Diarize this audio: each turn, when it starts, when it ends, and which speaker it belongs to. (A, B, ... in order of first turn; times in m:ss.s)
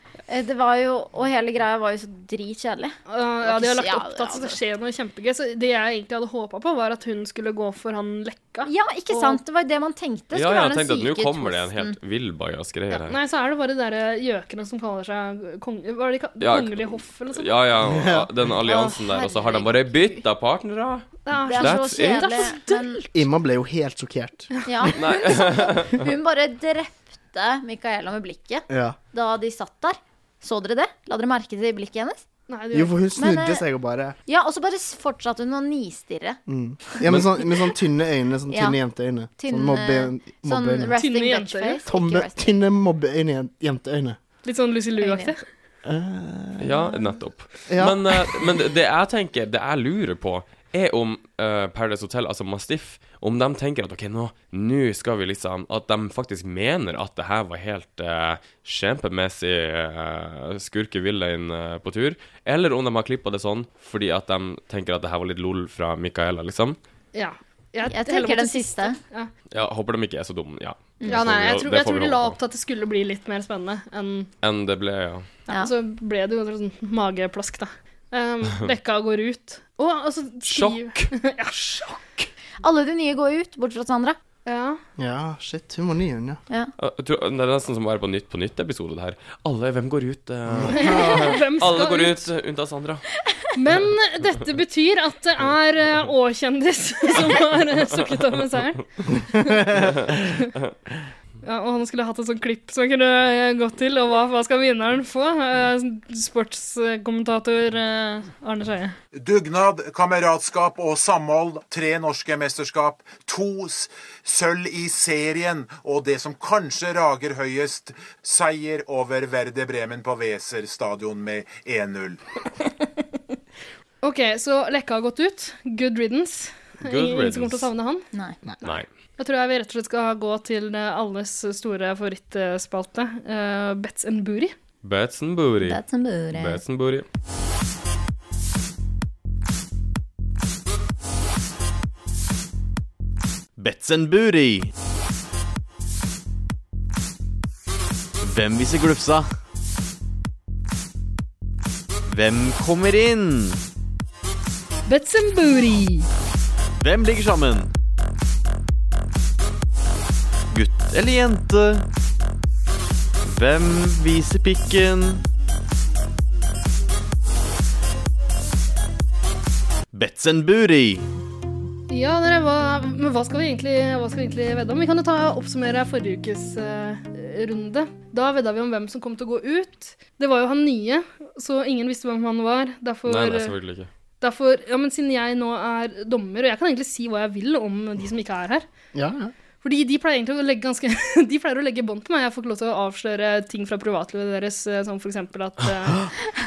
0:00.3-0:04.6 A
0:03.1-0:09.4 B
0:08.6-0:12.0 A
0:10.3-0:13.2 C
0:13.1-0:17.5 B
0:16.4-0:22.5 C
0:17.8-0:18.3 D
0:18.6-0:20.2 A
0:21.2-0:23.1 B
0:21.4-0:23.0 A
0:23.1-0:24.5 D
0:24.6-0:32.2 A
0:24.9-0:26.0 C
0:28.7-0:29.0 D
0:32.5-0:33.0 B
0:32.7-0:34.1 D
0:33.2-0:33.6 A
0:34.2-0:36.4 A
0:36.5-0:41.0 D
0:38.5-0:38.8 A
0:39.4-0:42.5 A
0:41.0-0:41.8 B
0:41.8-0:44.2 D
0:44.4-0:45.4 B
0:45.0-0:45.3 A
0:45.8-0:46.8 D
0:46.6-1:06.8 C
0:47.7-0:48.4 D
1:07.1-1:09.3 B
1:07.9-1:09.0 A
1:09.5-1:12.4 C
1:11.1-1:14.3 B
1:14.4-1:15.3 C
1:15.5-1:22.0 B
1:20.4-1:21.1 C
1:22.6-1:24.2 A
1:24.4-1:24.8 B
1:25.0-1:26.4 D
1:26.8-1:33.0 C
1:30.5-1:31.3 D
1:30.7-1:32.2 B
1:33.6-1:39.6 B
1:41.4-1:49.0 B
1:49.1-2:02.2 E
2:04.0-2:08.1 B
2:06.8-2:07.7 C
2:09.2-2:14.5 B
2:14.8-2:17.0 C
2:15.6-2:16.6 A
2:23.6-2:24.7 F
2:28.2-2:29.3 F
2:32.1-2:33.6 F
2:34.9-2:36.1 B
2:36.8-2:37.7 F
2:40.5-2:41.8 F
2:43.2-2:45.2 F
2:49.9-2:51.1 F
2:51.9-3:03.5 B
3:03.0-3:03.9 C
3:04.2-3:08.6 B
3:08.9-3:09.3 D
3:09.6-3:16.1 B